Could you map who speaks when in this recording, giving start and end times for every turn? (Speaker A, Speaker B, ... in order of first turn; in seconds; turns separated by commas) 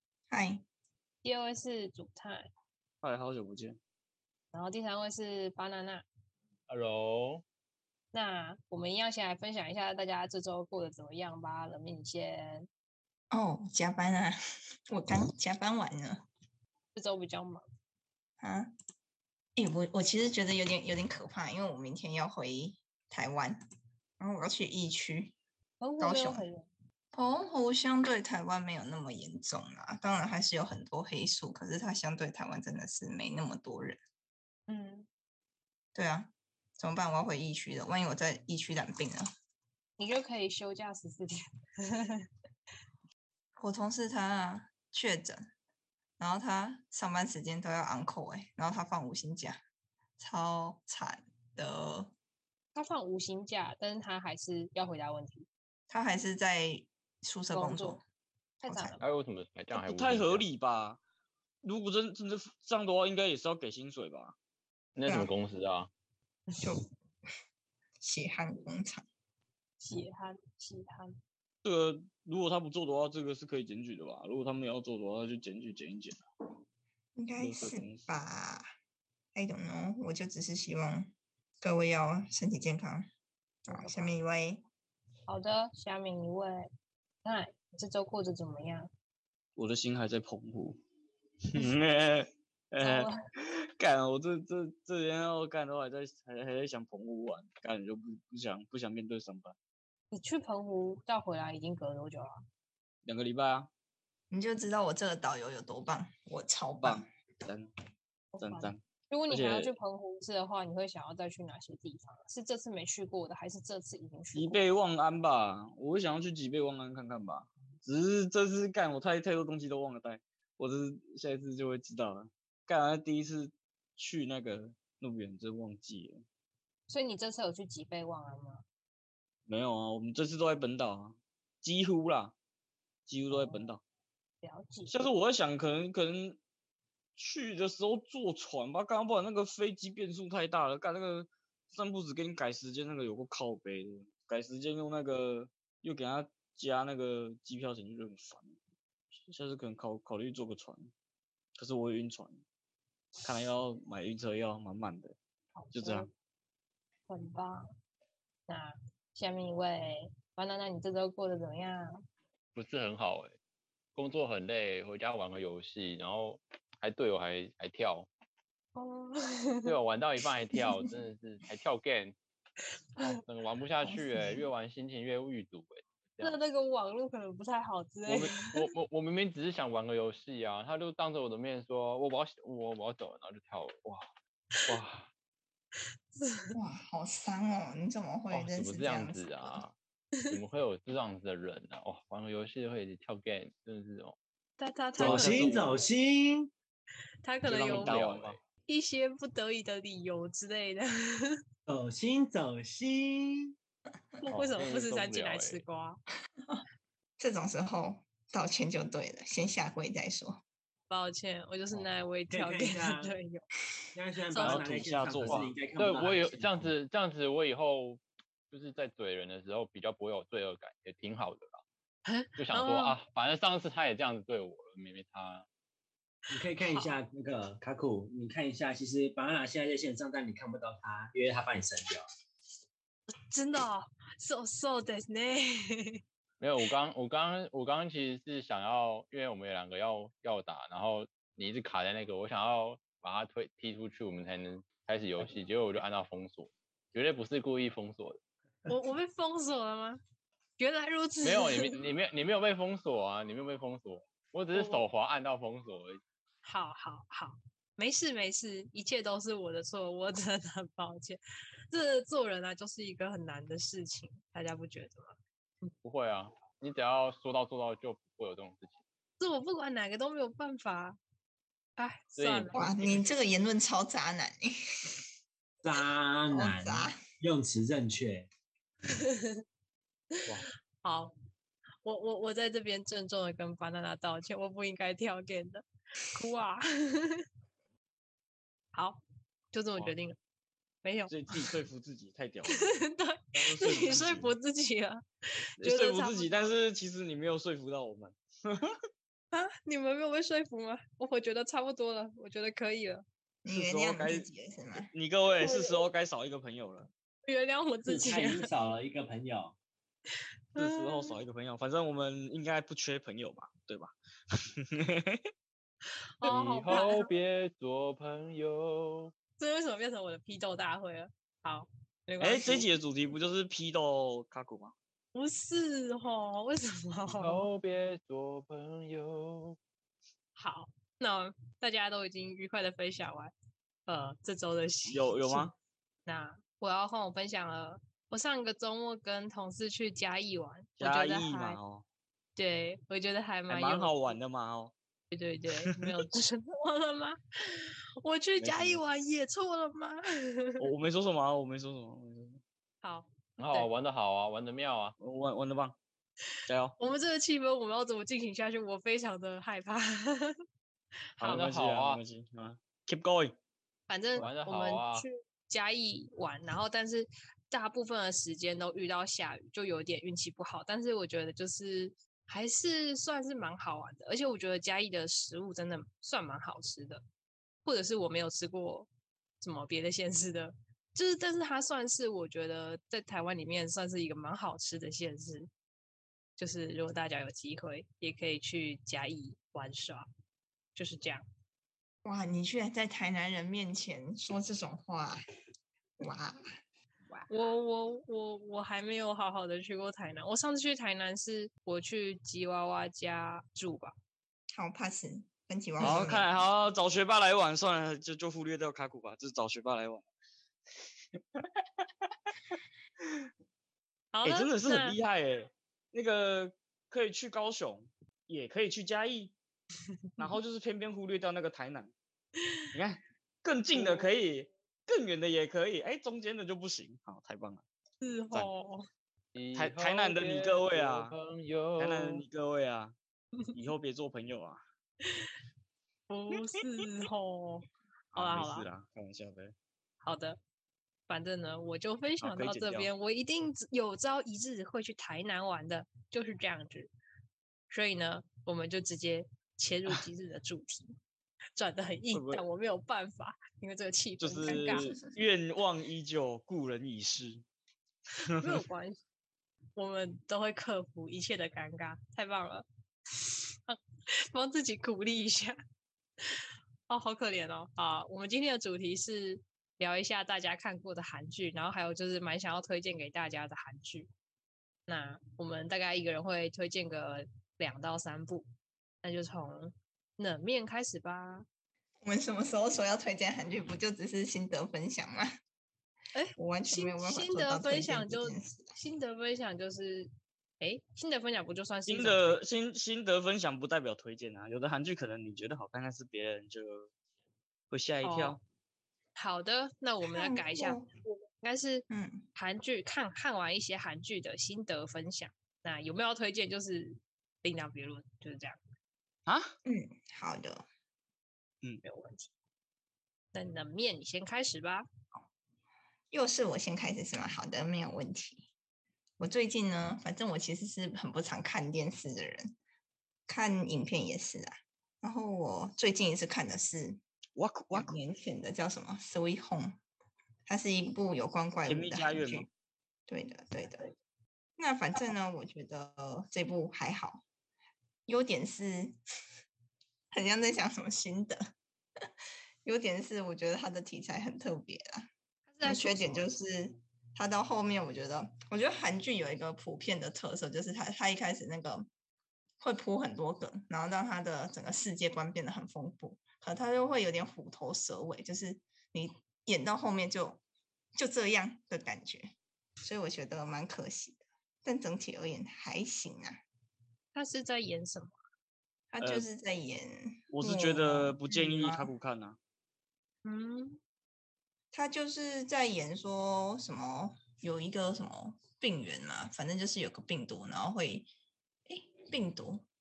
Speaker A: 0.3-0.6, Speaker B: 1.2-2.4, Speaker C: 3.0-3.8, Speaker B: 4.5-6.0, Speaker D: 6.7-7.4, Speaker B: 8.1-12.7, Speaker A: 13.3-14.4, Speaker A: 14.9-16.2, Speaker B: 16.9-17.6, Speaker A: 18.4-18.7, Speaker A: 19.6-23.6, Speaker A: 24.2-25.4, Speaker B: 25.8-26.6, Speaker A: 26.0-26.4, Speaker A: 27.1-34.0, Speaker B: 34.7-35.1, Speaker A: 35.9-39.3, Speaker B: 40.0-41.3, Speaker B: 41.9-42.2, Speaker A: 43.6-45.4, Speaker A: 46.2-49.6, Speaker A: 50.2-52.1, Speaker B: 52.7-55.5, Speaker A: 55.9-58.0, Speaker B: 57.5-58.0, Speaker B: 58.6-59.0, Speaker A: 58.6-59.0, Speaker D: 59.0-60.4, Speaker C: 59.7-61.0, Speaker C: 61.6-64.3, Speaker D: 65.0-65.9, Speaker A: 68.0-69.0, Speaker B: 69.8-71.1, Speaker C: 71.6-76.2, Speaker A: 77.2-78.7, Speaker C: 77.4-78.1, Speaker A: 79.3-83.1, Speaker A: 83.7-84.6, Speaker B: 83.7-84.1, Speaker B: 85.3-86.6, Speaker B: 87.2-88.9, Speaker C: 89.6-90.8, Speaker C: 91.5-99.5, Speaker B: 92.8-93.1, Speaker B: 100.1-102.3, Speaker C: 103.0-103.7, Speaker A: 104.3-107.1, Speaker C: 106.8-107.7, Speaker B: 108.3-114.6, Speaker C: 108.4-109.7, Speaker C: 114.3-126.2, Speaker B: 126.9-128.6, Speaker C: 129.5-132.3, Speaker C: 133.1-133.8, Speaker B: 133.3-133.7, Speaker B: 134.4-135.0, Speaker C: 134.9-136.4, Speaker C: 137.2-148.6, Speaker C: 149.1-150.9, Speaker C: 151.6-152.4, Speaker C: 153.2-155.2, Speaker B: 155.6-156.1, Speaker C: 155.7-156.1, Speaker B: 157.1-157.6, Speaker B: 158.5-161.9, Speaker D: 162.5-163.3, Speaker D: 163.9-168.1, Speaker B: 168.7-169.7, Speaker D: 169.6-172.2, Speaker D: 173.0-176.4, Speaker A: 173.8-174.4, Speaker B: 176.2-178.6, Speaker D: 178.0-184.0, Speaker D: 184.7-185.1, Speaker B: 186.1-186.5, Speaker A: 186.5-189.6, Speaker D: 188.3-189.7, Speaker D: 190.3-194.1, Speaker B: 194.6-195.8, Speaker E: 195.0-196.5, Speaker C: 195.0-195.8, Speaker B: 197.2-198.1, Speaker C: 197.4-198.4, Speaker D: 197.7-198.4, Speaker B: 198.7-201.4, Speaker E: 201.7-203.5, Speaker B: 204.2-206.0, Speaker D: 204.3-205.6, Speaker A: 207.2-210.4, Speaker B: 210.9-213.4, Speaker E: 212.3-213.2, Speaker E: 213.9-216.7, Speaker B: 214.3-214.7, Speaker C: 214.4-215.5, Speaker D: 215.2-221.6, Speaker B: 222.1-223.0, Speaker D: 222.4-225.4, Speaker E: 226.3-232.0, Speaker B: 226.5-227.0, Speaker B: 233.3-236.0, Speaker D: 236.4-248.2, Speaker B: 248.7-250.0, Speaker B: 250.6-251.8, Speaker D: 251.2-256.0, Speaker B: 254.5-254.8, Speaker B: 256.4-261.2, Speaker B: 261.7-265.7, Speaker D: 265.8-268.8, Speaker B: 269.2-271.0, Speaker B: 271.8-272.6, Speaker D: 272.2-273.1, Speaker A: 272.5-275.0, Speaker E: 275.6-278.3, Speaker A: 276.3-277.0, Speaker B: 278.9-279.4, Speaker B: 280.8-281.1, Speaker B: 281.8-287.2, Speaker B: 288.7-289.0, Speaker B: 289.5-290.2, Speaker B: 290.8-291.1, Speaker C: 291.1-292.8, Speaker B: 292.7-296.4, Speaker C: 293.3-294.3, Speaker C: 295.6-298.8, Speaker B: 299.3-303.0, Speaker A: 303.4-304.9, Speaker C: 303.5-304.2, Speaker C: 304.9-306.9, Speaker B: 305.4-305.8, Speaker B: 307.2-308.5, Speaker E: 307.9-309.6, Speaker B: 310.5-311.2, Speaker C: 310.6-313.9, Speaker C: 314.6-315.2, Speaker B: 316.2-317.1, Speaker D: 316.2-319.1, Speaker B: 319.4-322.7, Speaker C: 322.2-324.7, Speaker B: 325.1-327.5, Speaker D: 327.1-329.6, Speaker B: 330.4-333.3, Speaker B: 333.9-335.5, Speaker C: 334.9-335.5, Speaker B: 336.1-341.6, Speaker C: 340.8-341.8, Speaker B: 342.4-344.1, Speaker C: 343.5-344.7, Speaker B: 345.1-350.6, Speaker C: 348.4-348.8, Speaker C: 350.6-352.4, Speaker B: 352.8-353.7, Speaker D: 353.4-354.9, Speaker C: 355.0-355.8, Speaker C: 356.5-356.8, Speaker B: 356.8-360.4, Speaker C: 361.2-363.4, Speaker D: 361.2-362.0, Speaker B: 363.9-377.0, Speaker D: 364.2-365.1, Speaker B: 377.6-378.9, Speaker B: 379.4-385.5, Speaker B: 386.4-390.0, Speaker B: 390.7-391.2, Speaker A: 392.0-395.2, Speaker A: 396.0-396.4, Speaker B: 397.3-403.9, Speaker A: 404.5-406.3, Speaker C: 405.8-410.1, Speaker C: 411.2-413.3, Speaker B: 414.1-415.0, Speaker C: 414.2-419.3, Speaker C: 420.2-421.9, Speaker C: 422.7-427.6, Speaker B: 423.7-424.1, Speaker B: 428.0-428.9, Speaker D: 429.3-432.2, Speaker C: 429.6-431.1, Speaker C: 431.8-432.9, Speaker C: 433.5-434.6, Speaker B: 436.1-438.7, Speaker C: 438.1-439.5, Speaker B: 440.0-440.4, Speaker B: 441.1-446.9, Speaker C: 442.2-442.9, Speaker B: 447.7-450.9, Speaker B: 451.6-454.9, Speaker C: 452.1-452.4, Speaker C: 454.2-457.4, Speaker A: 454.5-455.1, Speaker C: 458.3-458.6, Speaker B: 458.4-459.0, Speaker B: 459.8-462.6, Speaker B: 463.2-463.8, Speaker B: 464.3-465.6, Speaker B: 466.9-474.1, Speaker B: 474.9-478.5, Speaker B: 479.0-481.4, Speaker A: 482.0-485.3, Speaker B: 486.1-490.1, Speaker A: 486.4-488.8, Speaker B: 490.6-492.4, Speaker C: 491.9-496.9, Speaker C: 497.7-498.4, Speaker B: 498.0-498.4, Speaker B: 499.1-508.6, Speaker A: 500.0-500.9, Speaker A: 501.9-502.2, Speaker C: 509.3-509.5, Speaker A: 509.6-510.6, Speaker B: 511.8-512.3, Speaker B: 513.3-514.8, Speaker A: 516.1-518.5, Speaker A: 519.2-522.5, Speaker A: 523.3-527.0, Speaker C: 527.4-527.9, Speaker A: 527.7-529.8, Speaker A: 530.5-532.5, Speaker C: 531.7-532.5, Speaker A: 533.1-533.9, Speaker A: 534.6-537.2, Speaker A: 538.1-538.9, Speaker A: 540.1-541.4, Speaker A: 542.6-545.1, Speaker B: 545.5-546.3, Speaker A: 545.6-551.9, Speaker A: 552.6-560.4, Speaker A: 561.0-562.3, Speaker A: 562.8-566.4, Speaker B: 567.1-568.1, Speaker A: 568.9-571.9, Speaker C: 570.3-572.4, Speaker B: 573.2-573.8, Speaker A: 574.7-581.1, Speaker A: 581.7-582.6